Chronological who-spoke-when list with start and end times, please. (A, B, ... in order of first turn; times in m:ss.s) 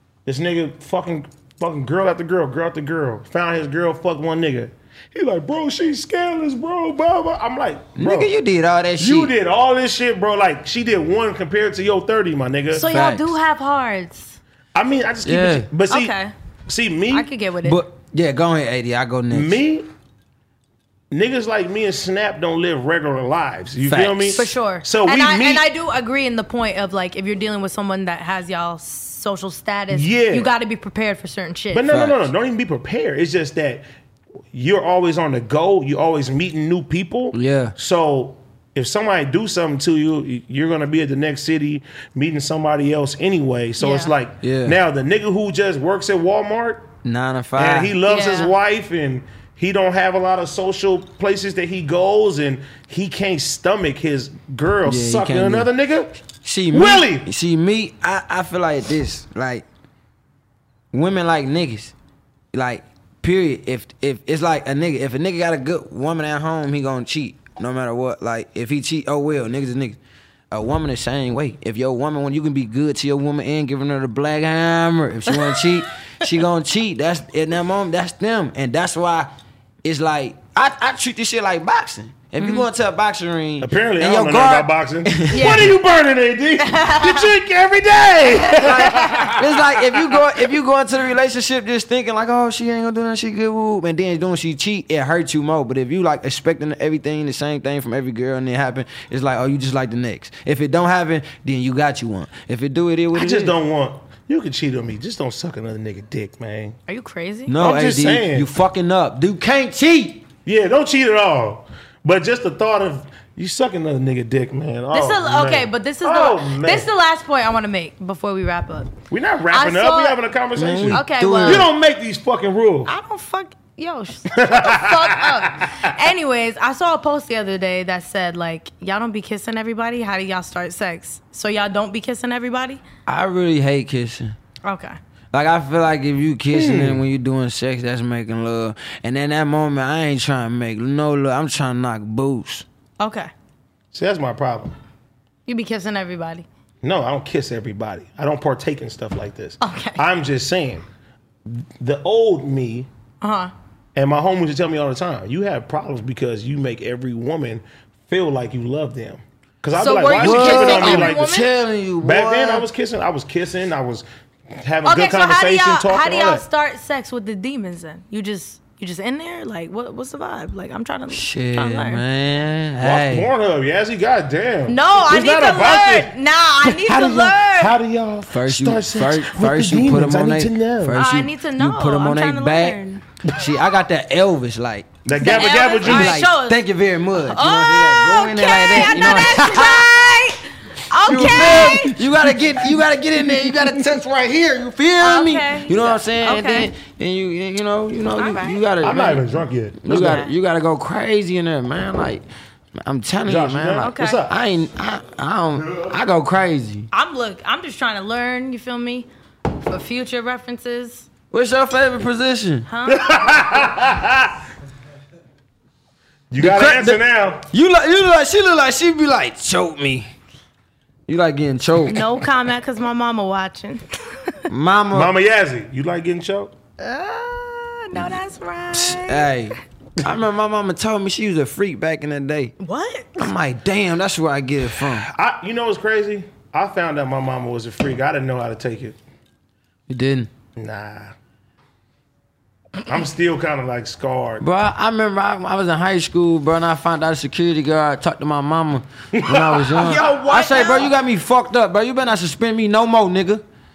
0:00.2-0:08.3 A
0:08.0-0:09.3 B
0:09.0-0:12.9 A
0:12.7-0:14.4 C
0:12.8-0:13.3 B
0:14.7-0:16.1 A
0:15.2-0:15.7 B
0:15.9-0:16.3 C
0:16.7-0:17.3 A
0:17.1-0:17.8 C
0:17.6-0:19.6 B
0:19.3-0:19.9 A
0:21.1-0:25.6 A
0:23.8-0:24.5 B
0:24.3-0:31.9 C
0:29.9-0:30.5 A
0:31.7-0:33.8 A
0:31.9-0:32.3 B
0:34.5-0:46.9 A
0:37.3-0:37.7 B
0:43.8-0:44.1 C
0:44.4-0:44.8 B
0:47.0-0:48.0 B
0:47.6-0:56.2 A
0:48.0-0:48.5 C
0:54.8-0:55.7 B
0:56.4-0:59.6 B
0:56.7-0:57.2 A
1:00.9-1:01.9 B
1:02.5-1:10.0 B
1:10.5-1:19.3 B
1:15.3-1:15.6 C
1:19.8-1:25.7 B
1:22.4-1:22.6 C
1:23.6-1:30.0 A
1:25.3-1:25.8 C
1:26.6-1:27.3 C
1:28.5-1:43.5 B
1:28.8-1:29.3 C
1:43.1-1:46.8 A
1:46.9-1:47.5 C
1:47.5-1:50.2 B
1:47.6-1:48.5 A
1:50.4-1:56.9 A
1:54.9-1:58.9 C
1:59.1-2:02.9 A
1:59.5-2:00.2 C
2:00.6-2:01.7 B
2:00.8-2:01.7 C
2:02.8-2:12.8 C
2:04.3-2:05.7 A
2:13.0-2:14.4 B
2:14.6-2:15.0 C
2:15.3-2:22.6 B
2:16.5-2:17.0 A
2:23.0-2:23.3 C
2:23.9-2:24.7 A
2:25.4-2:26.4 C
2:26.8-2:30.8 A
2:29.6-2:30.0 C
2:31.5-2:32.9 A
2:33.2-2:33.5 C
2:34.0-2:41.2 A
2:39.7-2:41.5 C
2:40.1-2:42.7 B
2:42.0-2:44.0 A
2:44.6-2:46.4 A
2:44.8-2:52.0 C
2:51.1-2:53.3 B
2:52.8-2:56.1 A
2:54.7-2:57.8 C
2:56.6-3:01.0 A
2:58.3-3:10.2 B
3:00.9-3:03.0 C
3:05.0-3:06.2 A
3:05.1-3:06.6 C
3:07.1-3:12.0 C
3:11.0-3:22.2 B
3:11.1-3:12.8 A
3:13.3-3:13.6 A
3:15.0-3:16.7 C
3:18.1-3:18.6 C
3:18.8-3:20.2 A
3:19.9-3:20.3 C
3:22.8-3:26.9 B
3:23.2-3:24.3 A
3:23.8-3:24.2 C
3:26.9-3:31.1 C
3:31.3-3:32.7 B
3:32.7-3:33.2 C
3:32.8-3:34.3 A
3:36.3-3:37.4 A
3:36.4-3:40.1 B
3:41.1-3:42.1 B
3:41.8-3:44.4 C
3:44.5-3:45.1 B
3:44.9-3:46.5 A
3:46.8-3:49.3 C
3:48.7-3:52.5 B
3:52.6-3:53.3 C
3:53.2-3:55.1 B
3:55.1-3:59.0 A
3:59.9-4:00.3 B
4:00.6-4:01.1 A
4:02.8-4:04.4 A
4:04.4-4:13.4 B
4:09.1-4:10.1 A
4:09.8-4:10.9 C